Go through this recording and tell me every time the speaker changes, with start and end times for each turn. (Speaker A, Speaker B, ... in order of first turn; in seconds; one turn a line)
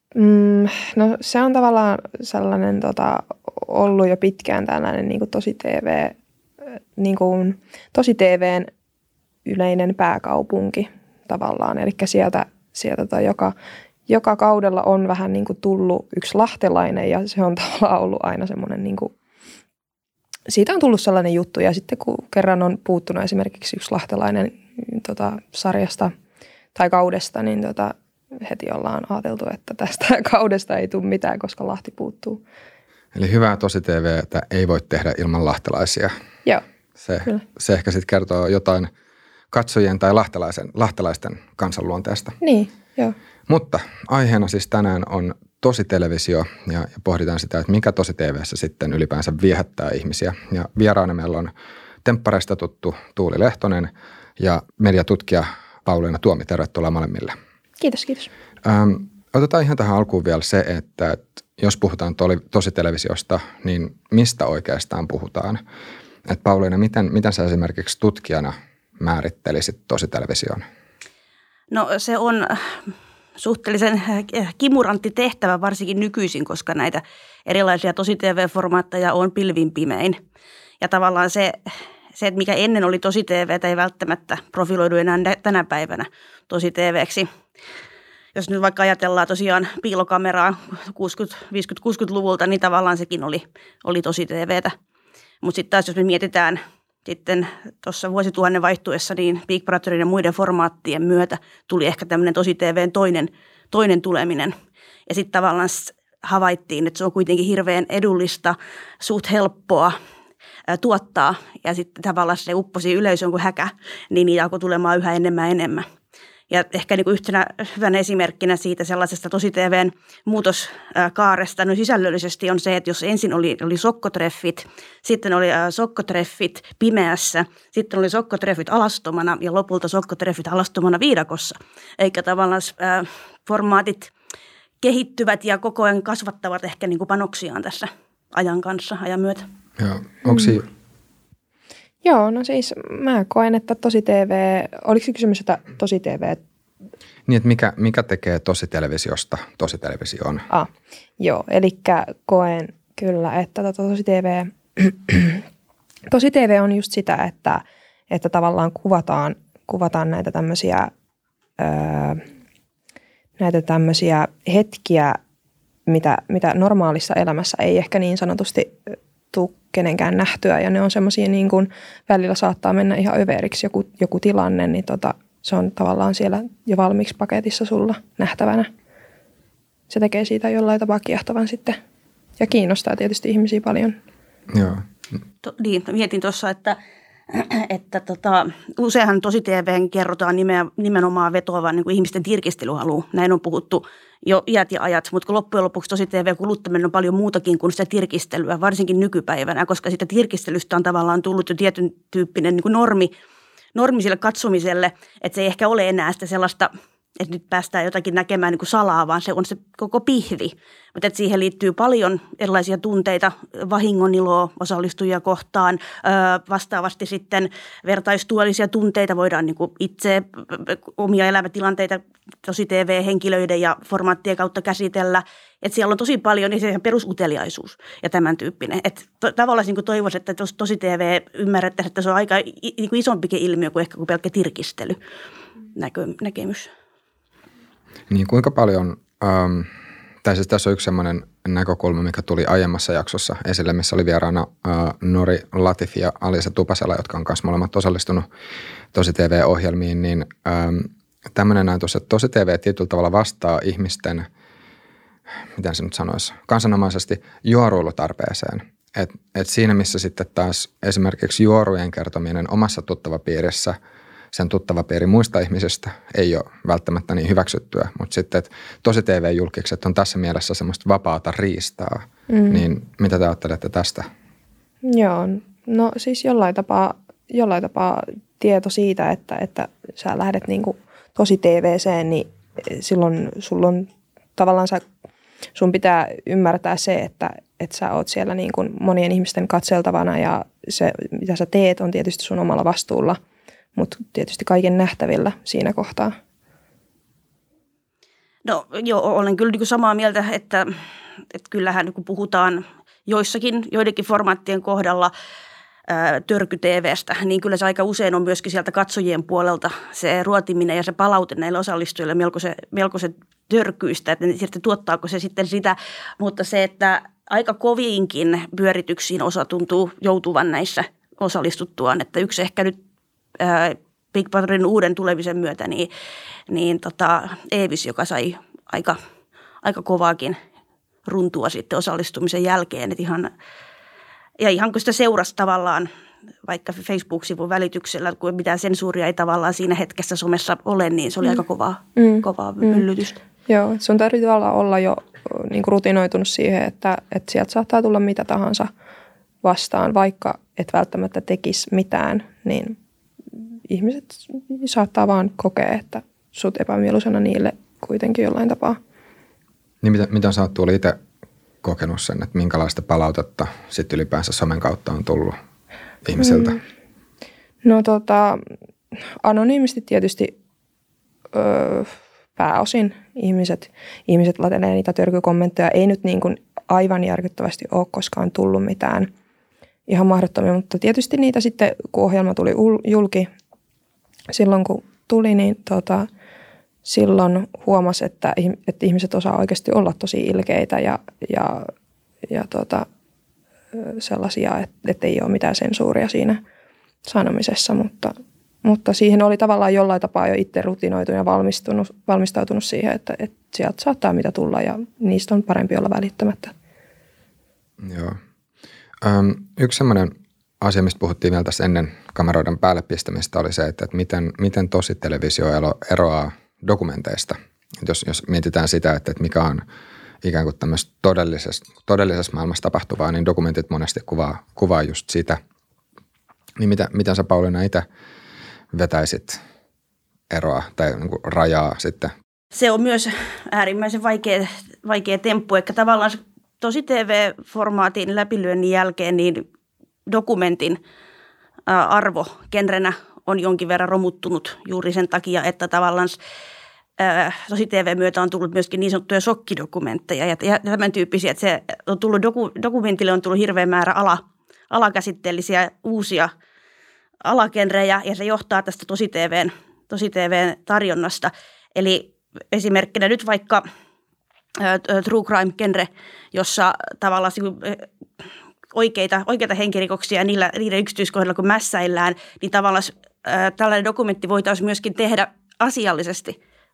Speaker A: 0.1-6.2
Speaker A: 7.0-8.7
Speaker A: 9.4-13.5
Speaker A: 14.1-19.1
Speaker A: 20.5-26.1
Speaker A: 26.7-32.4
Speaker B: 33.1-36.1
Speaker B: 37.0-38.9
Speaker B: 39.5-42.4
Speaker A: 42.4-43.1
Speaker B: 43.5-51.5
Speaker B: 52.0-57.4
Speaker A: 57.8-58.3
Speaker B: 58.6-65.6
Speaker B: 66.2-70.6
Speaker C: 71.7-72.8
Speaker C: 73.4-80.2
Speaker C: 80.8-81.6
Speaker C: 82.2-87.3
Speaker C: 88.3-94.8
Speaker C: 95.4-104.5
Speaker C: 105.1-109.9
Speaker C: 110.7-115.8
Speaker C: 116.5-134.1
Speaker C: 134.8-139.5
Speaker B: 139.8-140.7
Speaker A: 140.2-140.6
Speaker A: 142.0-146.4
Speaker B: 147.3-150.5
Speaker A: 150.5-155.4
Speaker A: 156.1-160.9
Speaker A: 161.6-162.2
Speaker A: 163.4-165.2
Speaker A: 165.9-178.7
Speaker A: 179.9-181.8
Speaker A: 182.4-184.0
Speaker B: 184.5-184.8
Speaker C: 185.4-186.8
Speaker C: 187.3-203.1
Speaker C: 203.7-235.0
Speaker C: 235.7-236.7
Speaker B: 238.1-239.7
Speaker B: 240.2-248.3
Speaker B: 248.9-254.3
Speaker B: 255.6-263.8
Speaker B: 264.3-274.1
Speaker A: 272.3-272.6
Speaker A: 274.8-284.8
Speaker A: 285.5-293.2
Speaker A: 293.8-296.1
Speaker C: 298.4-300.7
Speaker C: 301.3-305.1
Speaker C: 305.9-322.8
Speaker C: 323.4-325.9
Speaker C: 326.5-329.0
Speaker C: 329.6-330.4
Speaker C: 331.1-333.3
Speaker C: 334.4-335.9
Speaker C: 336.4-343.2
Speaker A: 341.9-342.8
Speaker A: 343.5-348.7
Speaker A: 349.4-352.8
Speaker A: 353.7-358.8
Speaker B: 359.8-361.0
Speaker B: 361.6-365.4
Speaker B: 366.0-366.6
Speaker A: 366.2-366.6
Speaker A: 367.6-368.4
Speaker A: 369.2-370.3
Speaker A: 371.3-379.1
Speaker A: 379.9-383.3
Speaker A: 384.3-386.1
Speaker A: 386.8-391.7
Speaker A: 392.3-392.9
Speaker A: 393.7-396.4
Speaker A: 397.1-406.5
Speaker B: 407.8-408.2
Speaker B: 409.0-419.6
Speaker B: 420.2-425.4
Speaker B: 426.6-427.9
Speaker B: 428.7-429.4
Speaker B: 430.3-432.1
Speaker C: 432.5-439.4
Speaker C: 440.1-440.8
Speaker C: 441.7-446.2
Speaker C: 447.0-456.3
Speaker C: 457.2-463.6
Speaker C: 464.6-467.9
Speaker C: 468.7-476.4